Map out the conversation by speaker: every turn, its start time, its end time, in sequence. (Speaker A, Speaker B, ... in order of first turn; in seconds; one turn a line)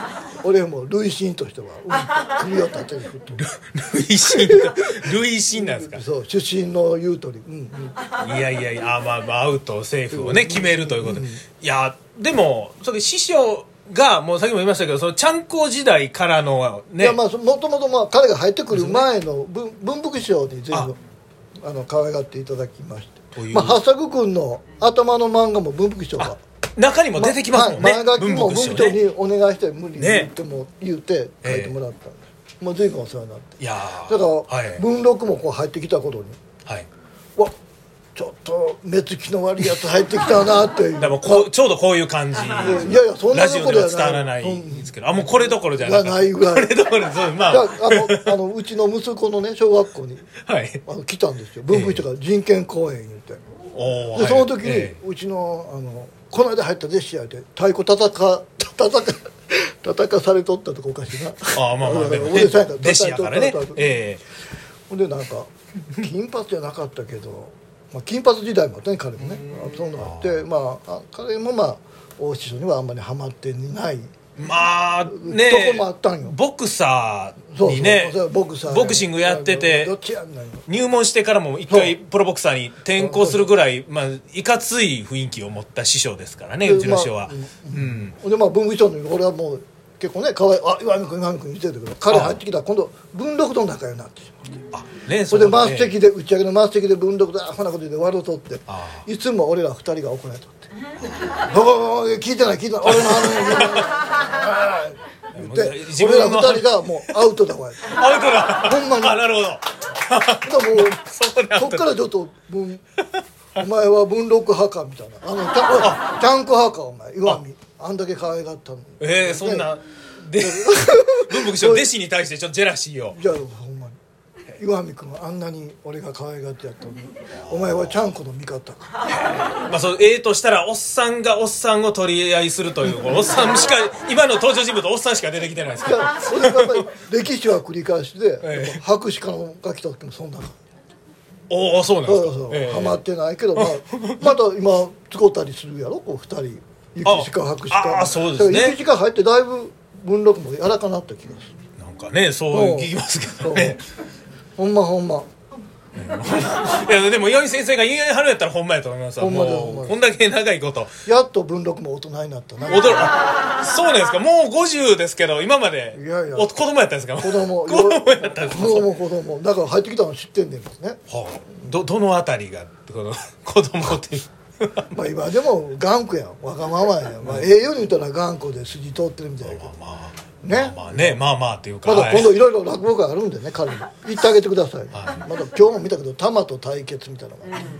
Speaker A: 0.4-3.4
Speaker B: 3.4-6.0
Speaker A: 4.3-8.0
Speaker B: 8.2-17.2
Speaker A: 10.1-11.4
Speaker A: 17.0-21.0
Speaker B: 18.7-19.1
Speaker A: 21.6-26.4
Speaker B: 23.3-23.8
Speaker B: 26.2-29.0
Speaker A: 27.1-36.4
Speaker B: 30.0-30.3
Speaker B: 31.4-31.7
Speaker B: 33.6-34.8
Speaker A: 38.1-41.5
Speaker B: 41.0-48.3
Speaker A: 42.5-46.8
Speaker A: 47.5-50.3
Speaker B: 50.4-50.8
Speaker A: 50.9-53.4
Speaker B: 51.7-52.0
Speaker B: 53.7-55.0
Speaker A: 54.1-63.9
Speaker B: 61.5-64.2
Speaker A: 64.9-74.1
Speaker B: 69.2-70.4
Speaker B: 74.4-79.9
Speaker A: 75.0-76.4
Speaker A: 77.5-80.7
Speaker B: 80.7-88.1
Speaker A: 81.7-82.0
Speaker A: 82.9-83.5
Speaker A: 86.6-94.6
Speaker B: 92.1-92.4
Speaker B: 94.7-96.0
Speaker A: 95.3-100.7
Speaker B: 98.7-99.0
Speaker B: 101.0-101.4
Speaker A: 101.4-108.0
Speaker B: 102.8-104.0
Speaker B: 105.3-106.8
Speaker B: 107.8-111.9
Speaker A: 108.6-109.3
Speaker A: 110.4-111.0
Speaker A: 111.5-112.8
Speaker A: 113.5-119.7
Speaker B: 115.8-116.1
Speaker B: 119.0-123.2
Speaker A: 120.3-121.9
Speaker A: 123.1-124.0
Speaker A: 124.5-128.9
Speaker B: 127.4-127.9
Speaker B: 129.1-136.9
Speaker A: 135.8-140.6
Speaker B: 138.4-138.8
Speaker B: 141.5-143.0
Speaker A: 142.1-151.5
Speaker B: 143.6-144.3
Speaker B: 147.0-148.8
Speaker B: 151.8-153.8
Speaker A: 152.5-153.8
Speaker A: 154.6-155.3
Speaker B: 156.0-160.9
Speaker A: 159.2-160.0
Speaker A: 161.1-163.1
Speaker B: 162.7-168.9
Speaker A: 165.9-166.5
Speaker A: 167.2-171.0
Speaker B: 171.1-174.8
Speaker A: 174.9-179.7
Speaker B: 177.2-177.5
Speaker B: 179.4-182.3
Speaker A: 180.4-181.2
Speaker A: 181.8-187.7
Speaker B: 184.9-185.2